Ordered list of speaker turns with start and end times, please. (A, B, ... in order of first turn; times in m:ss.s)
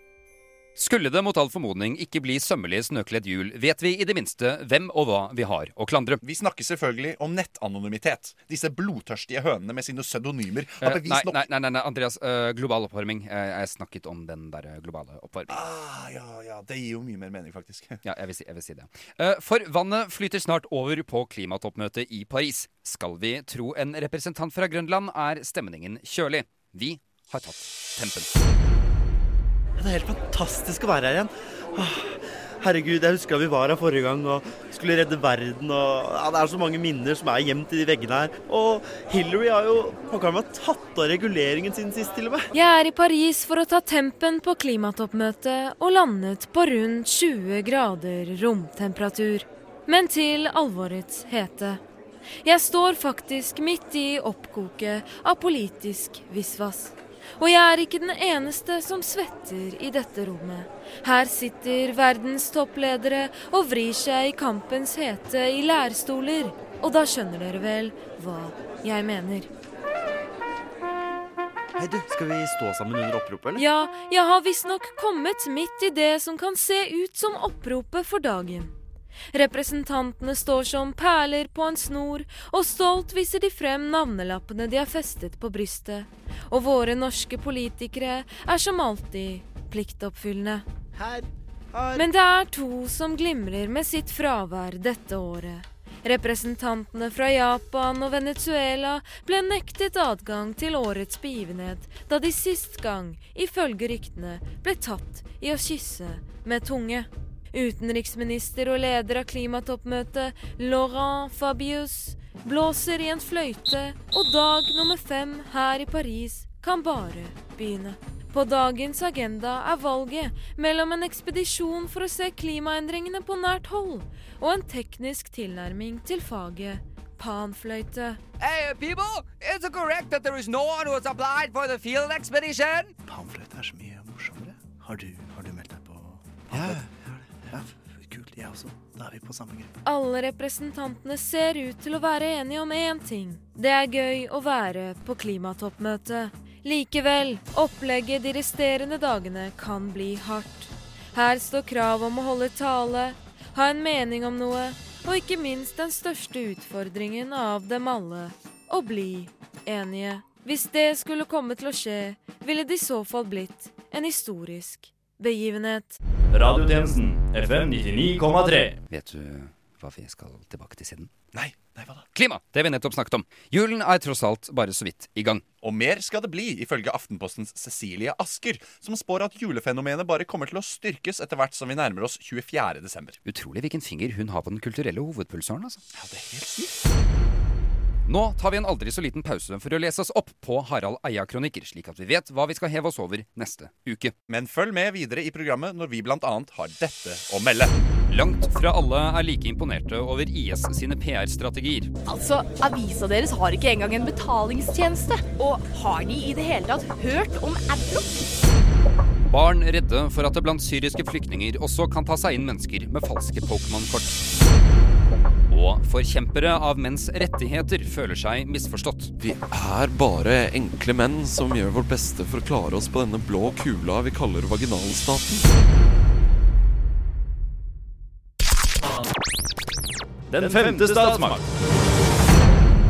0:00.8-0:06.2 A
0:06.2-0:11.4 B
0:10.8-0:15.6 A
0:15.5-0:18.0 B
0:18.0-0:28.3 A
0:29.8-0:42.5 C
0:42.5-0:51.8 D
0:52.4-1:09.5 D
1:11.8-1:13.6 C
1:13.6-1:18.7 D
1:19.3-1:30.6 D
1:31.9-2:08.2 D
2:08.4-2:12.9 E
2:13.0-2:19.7 F
2:19.8-2:46.0 D
2:46.3-2:48.7 G
2:48.9-2:51.1 A
2:51.3-2:52.0 B
2:52.1-2:55.4 A
2:55.6-3:03.2 B
3:03.2-3:05.8 A
3:05.9-3:06.8 B
3:08.0-3:14.1 A
3:14.3-3:17.9 B
3:18.1-3:21.9 A
3:22.0-3:28.3 H
3:29.3-3:34.2 A
3:35.5-3:39.1 A
3:39.2-3:45.5 I
3:50.3-3:51.4 G